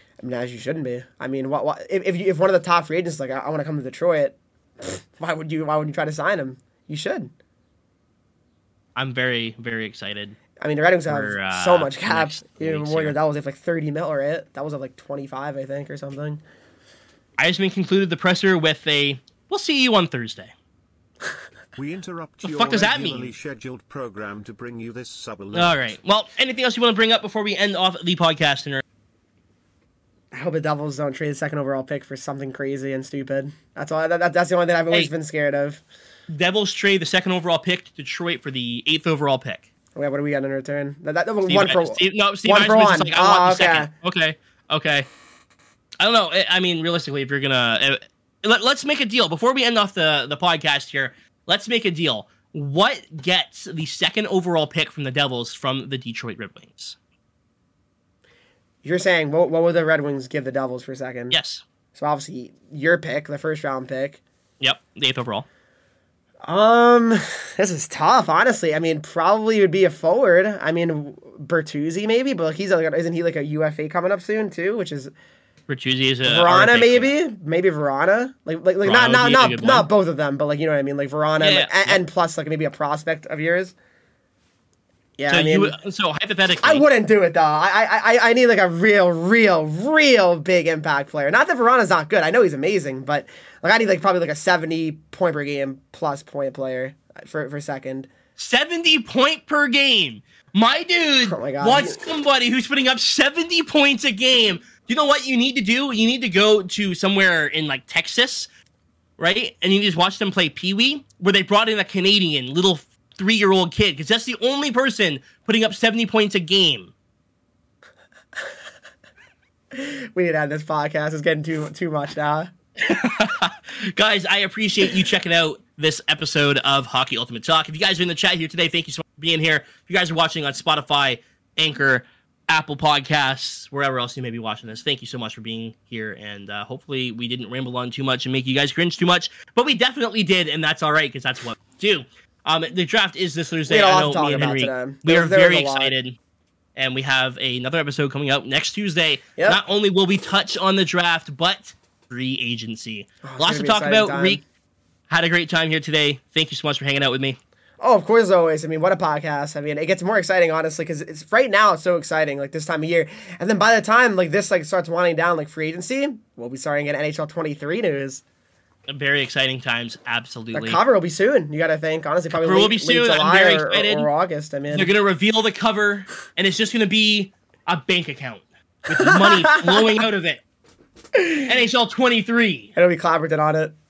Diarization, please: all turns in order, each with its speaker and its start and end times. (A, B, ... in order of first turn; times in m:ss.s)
0:00.2-0:07.3 A
0:09.0-0:10.4 B
0:10.6-0:16.4 A
0:11.1-0:13.2 B
0:17.4-0:20.5 B
0:21.8-0:25.9 C
0:22.4-0:23.3 B
0:25.5-0:28.8 B
0:30.3-0:35.8 A
0:36.3-0:39.7 B
0:40.0-0:43.9 A
0:41.5-0:45.1 B
0:46.0-0:57.0 B
0:58.8-1:01.4 A
1:01.3-1:01.6 B
1:02.0-1:04.2 A
1:04.6-1:05.5 B
1:06.4-1:15.1 A
1:15.7-1:17.1 B
1:16.2-1:23.8 A
1:18.8-1:19.9 B
1:21.4-1:22.0 B
1:25.2-1:25.7 A
1:25.3-1:26.8 B
1:26.6-1:38.1 A
1:38.4-1:48.5 B
1:41.3-1:42.0 A
1:49.2-1:56.9 B
1:59.7-2:02.5 A
2:02.8-2:26.2 B
2:23.7-2:25.9 A
2:26.8-2:34.4 B
2:33.2-2:34.4 A
2:35.1-2:37.4 B
2:37.8-2:48.2 A
2:48.9-2:50.8 B
2:50.6-2:54.9 A
2:52.4-2:54.1 B
2:54.7-3:00.4 B
2:59.0-2:59.9 A
3:01.2-3:01.5 A
3:01.3-3:02.7 B
3:02.8-3:03.8 A